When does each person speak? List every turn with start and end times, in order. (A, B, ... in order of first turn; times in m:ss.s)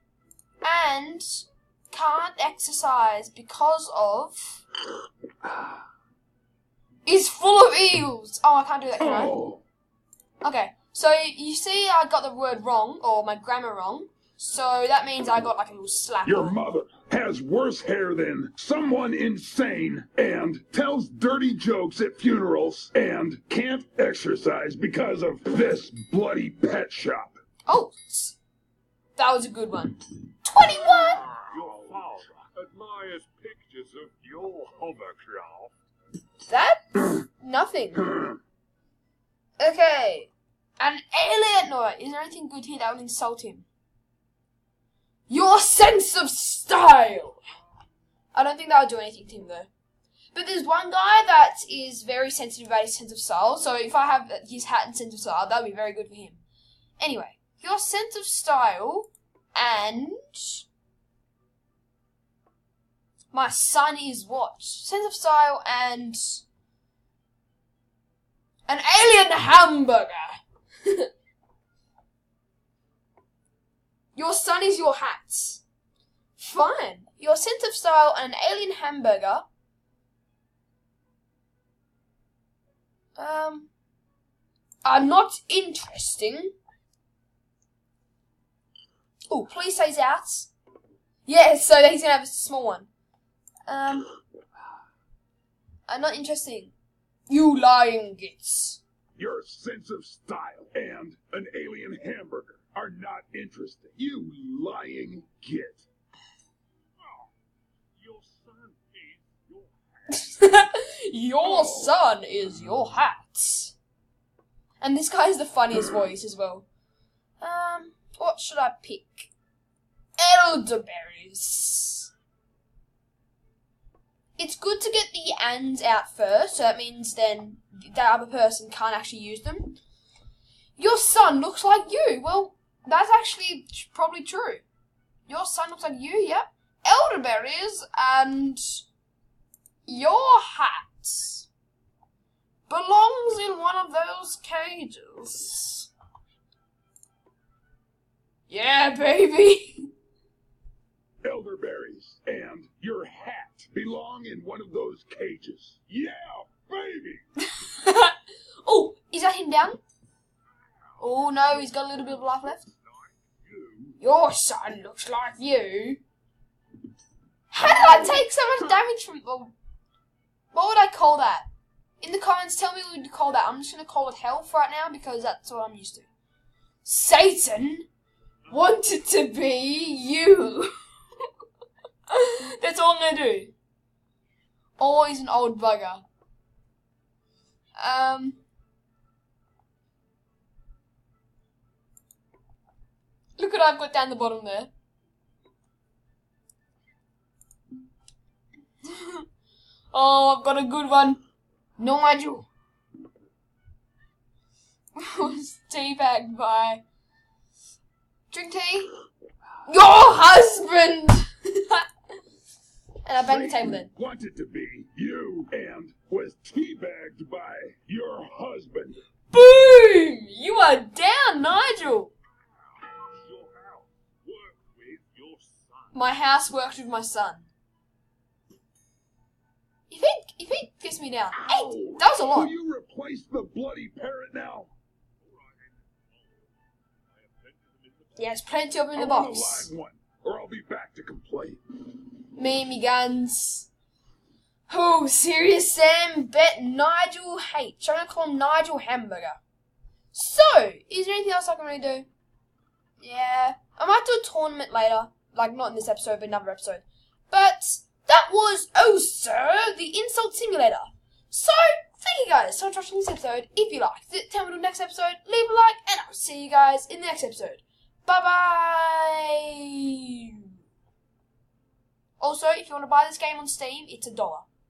0:00.6-0:04.6 A
0:07.0-0:09.4 A
0:09.0-0:09.6 B
0:10.4-0:16.6 A
0:16.2-0:27.4 B
0:27.7-0:28.4 A
0:29.2-0:31.2 A
0:31.4-0:35.7 C
0:31.5-0:32.2 B
0:36.5-0:38.2 A
0:39.6-0:43.7 A
0:45.3-0:47.4 A
0:48.3-0:49.7 A
0:50.3-0:56.4 A
0:57.0-1:00.6 A
1:03.3-1:06.4 A
1:08.7-1:11.1 A
1:14.1-1:15.6 A
1:16.4-1:19.4 A
1:23.2-1:23.7 A
1:24.8-1:26.6 A
1:29.3-1:30.5 A
1:31.2-1:32.9 A
1:33.7-1:34.1 A
1:35.9-1:36.7 A
1:37.3-1:38.8 A
1:39.2-1:45.8 B
1:48.0-1:50.3 C
1:50.1-1:53.7 A
1:51.4-1:51.9 B
1:54.8-1:56.6 A
1:57.4-1:59.3 A
2:00.2-2:02.1 A
2:04.4-2:09.8 A
2:10.8-2:14.6 A
2:15.3-2:18.8 A
2:19.8-2:21.5 A
2:22.7-2:25.9 A
2:28.5-2:29.9 A
2:31.2-2:37.2 B
2:37.4-2:39.8 A
2:40.6-2:43.9 C
2:41.0-2:42.6 A
2:44.0-2:46.0 A
2:47.5-2:49.5 A
2:47.8-2:48.2 B
2:50.5-2:51.5 A
2:52.0-2:56.1 A
2:56.8-2:57.9 A
2:58.5-3:00.7 A
3:02.1-3:03.5 A
3:04.8-3:06.0 A
3:07.8-3:08.4 A
3:13.4-3:14.7 A
3:18.8-3:19.2 A
3:19.9-3:21.2 A
3:21.8-3:22.5 A
3:25.0-3:26.8 A
3:28.3-3:28.9 A
3:29.6-3:31.8 A
3:33.0-3:33.9 A
3:33.2-3:39.0 B
3:39.3-3:42.1 A
3:42.4-3:46.0 C
3:45.9-3:47.5 A
3:49.9-3:52.5 A
3:51.3-3:54.7 B
3:55.2-3:56.5 C
3:57.0-3:58.3 C
3:58.2-3:59.7 A
3:58.9-4:01.6 B
4:02.4-4:03.7 A
4:04.7-4:09.4 A
4:10.1-4:12.1 A
4:13.0-4:30.3 A
4:32.2-4:34.4 A